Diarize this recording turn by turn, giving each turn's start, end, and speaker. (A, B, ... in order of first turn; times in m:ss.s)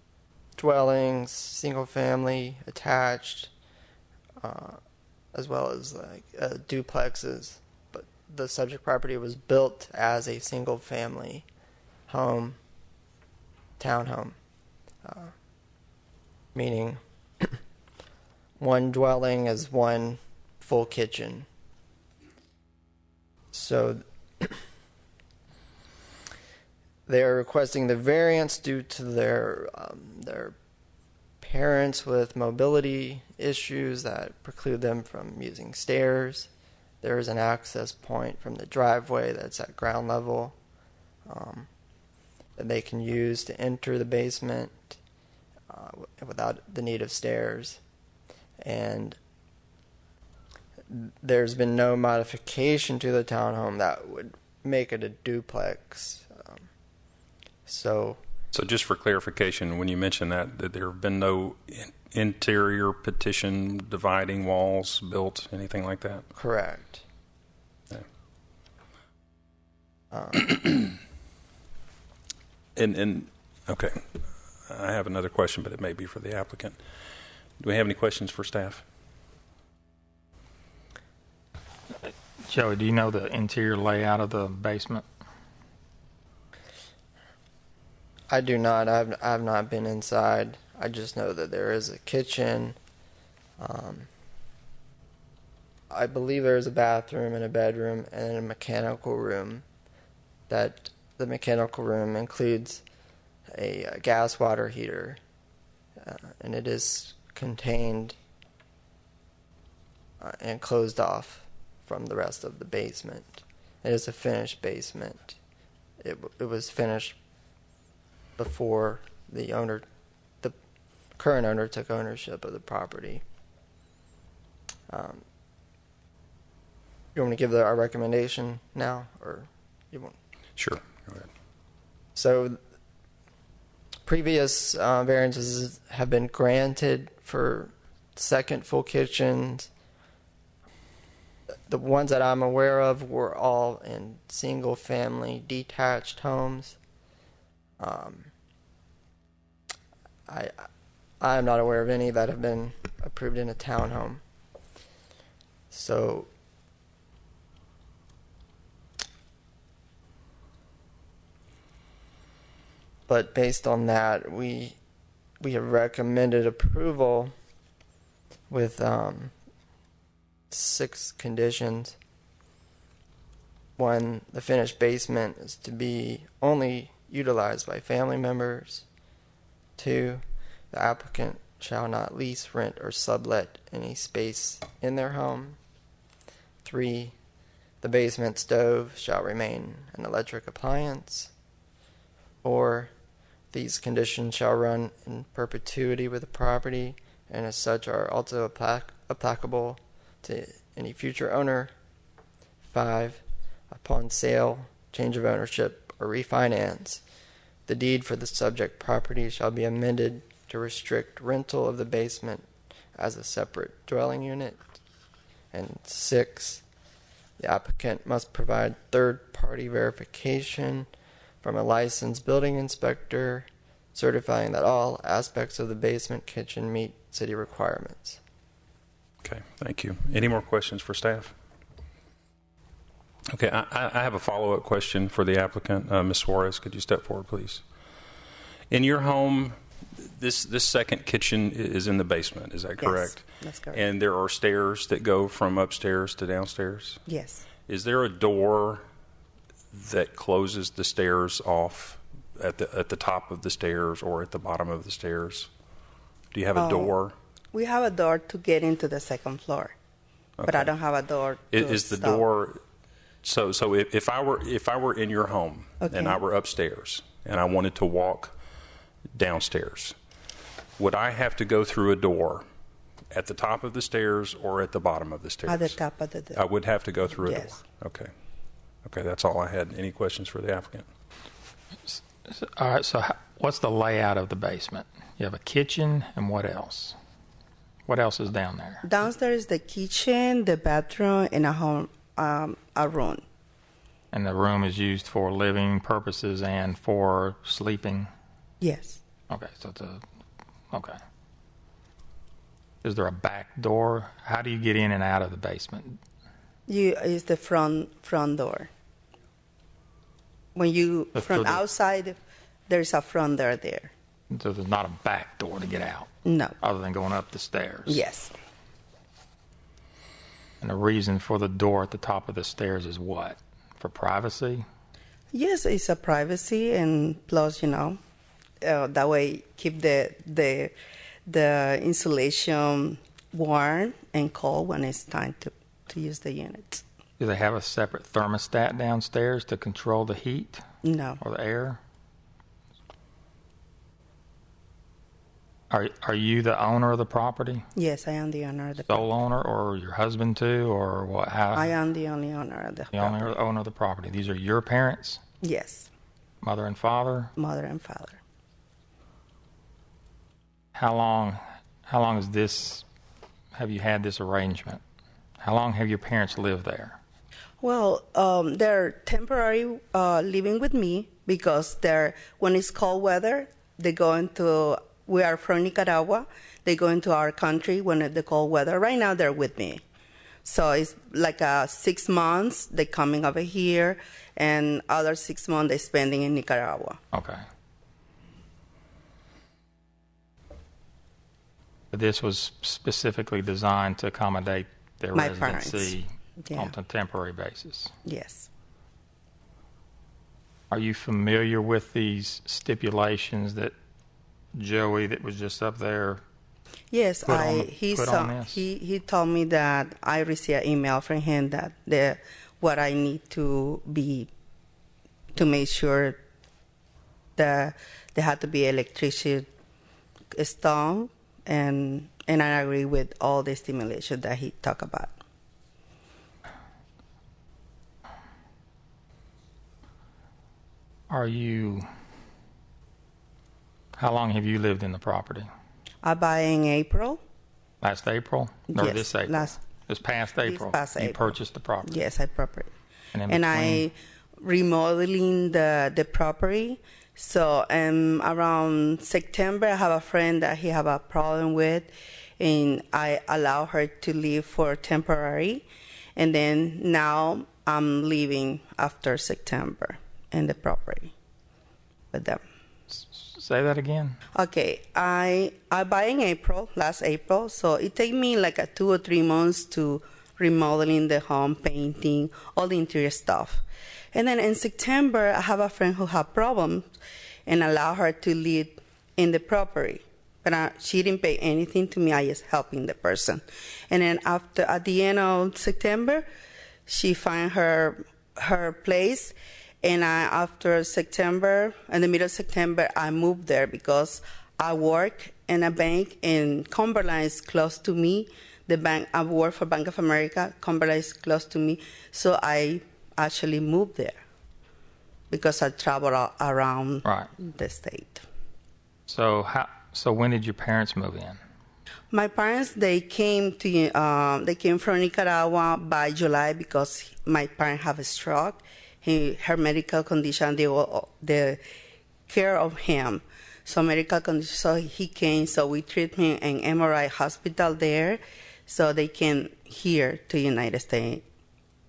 0:00.6-0:03.5 A
0:04.4-0:04.8 A
0:05.3-0:11.4 A
0:12.1-0:12.6 A
0:13.8-0:14.4 A
0:15.0-0:15.3 A
0:16.6-0:17.6 A
0:18.6-0:21.5 A
0:23.5-0:24.6 A
0:27.1-0:30.6 A
0:31.4-0:36.5 A
0:37.0-0:40.6 A
0:41.3-0:41.7 A
0:42.6-0:45.0 A
0:45.7-0:47.8 A
0:48.6-0:49.2 A
0:50.9-0:56.7 A
0:57.7-0:58.2 A
0:58.5-1:06.2 B
1:06.4-1:07.0 A
1:10.1-1:10.8 A
1:12.8-1:16.8 B
1:17.6-1:18.8 B
1:22.0-1:25.1 C
1:28.3-1:32.8 A
1:33.6-1:34.1 A
1:35.9-1:39.6 A
1:40.5-1:42.8 A
1:43.5-1:45.2 A
1:46.0-1:48.2 A
1:50.2-1:55.4 A
1:56.0-1:57.2 A
1:58.4-1:59.9 A
2:01.2-2:03.2 A
2:04.9-2:05.2 A
2:07.2-2:10.2 A
2:10.6-2:11.3 B
2:12.2-2:12.6 A
2:14.1-2:19.7 A
2:21.7-2:26.8 A
2:27.8-2:28.3 A
2:30.3-2:30.7 A
2:31.2-2:34.2 A
2:35.7-2:36.3 A
2:43.1-2:44.8 A
2:45.4-2:47.3 A
2:48.5-2:49.3 A
2:50.5-2:52.0 A
2:53.8-2:58.9 A
2:59.8-3:05.6 A
3:06.6-3:07.1 A
3:07.8-3:11.3 A
3:12.4-3:12.9 A
3:13.5-3:21.7 A
3:22.7-3:27.0 A
3:27.7-3:34.6 A
3:35.5-3:36.6 A
3:37.4-3:40.9 A
3:41.4-3:48.2 A
3:49.2-3:51.3 B
3:53.3-3:57.6 B
3:58.7-4:07.0 B
4:02.8-4:03.8 D
4:07.1-4:07.4 D
4:07.7-4:08.8 B
4:09.7-4:15.5 B
4:16.3-4:17.2 B
4:16.6-4:17.0 D
4:17.5-4:19.7 D
4:20.4-4:20.7 B
4:20.4-4:22.2 D
4:21.5-4:22.6 B
4:23.2-4:28.4 B
4:25.8-4:26.2 D
4:29.1-4:30.0 B
4:30.8-4:32.5 B
4:33.1-4:35.8 B
4:35.5-4:36.4 D
4:36.3-4:38.1 B
4:37.1-4:37.6 D
4:38.8-4:40.9 B
4:41.9-4:47.0 C
4:47.9-4:48.8 C
4:48.8-4:53.2 D
4:54.1-4:58.1 C
4:58.6-4:59.0 D
4:59.3-5:00.0 C
5:00.7-5:01.0 C
5:02.8-5:06.0 C
5:06.7-5:08.7 D
5:10.6-5:13.9 D
5:11.2-5:11.6 C
5:14.3-5:18.0 C
5:16.2-5:16.6 D
5:17.9-5:18.3 D
5:20.6-5:24.7 C
5:25.3-5:28.0 D
5:28.6-5:30.7 D
5:31.3-5:36.8 D
5:37.2-5:40.7 C
5:40.8-5:41.2 D
5:41.2-5:41.8 C
5:45.7-5:47.6 C
5:47.8-5:49.0 D
5:48.9-5:51.7 C
5:51.6-5:53.2 D
5:52.9-5:55.2 C
5:55.4-5:55.9 D
5:56.4-5:57.3 C
5:57.4-5:58.2 D
6:00.8-6:02.8 C
6:03.5-6:04.8 C
6:05.4-6:07.0 C
6:07.6-6:19.8 D
6:20.4-6:27.0 D
6:27.1-6:27.4 C
6:31.9-6:37.9 C
6:35.2-6:36.7 D
6:38.1-6:38.5 D
6:40.7-6:43.7 C
6:44.5-6:46.2 C
6:46.9-6:54.3 D
6:47.2-6:48.6 C
6:55.3-6:56.2 D
6:57.4-6:59.5 D
7:00.3-7:05.2 D
7:11.1-7:11.9 C
7:14.0-7:15.5 C
7:16.0-7:17.2 D
7:17.8-7:21.9 C
7:18.7-7:19.6 D
7:20.4-7:21.3 D
7:21.8-7:22.7 D
7:23.1-7:23.9 C
7:23.3-7:35.6 D
7:36.2-7:41.1 D
7:42.1-7:42.4 D
7:42.9-7:44.2 C
7:44.4-7:56.9 D
7:57.5-8:06.3 D
8:06.9-8:24.2 D
8:25.3-8:28.2 D
8:27.0-8:27.3 C
8:29.1-8:31.4 C
8:32.1-8:41.6 D
8:42.3-8:51.2 D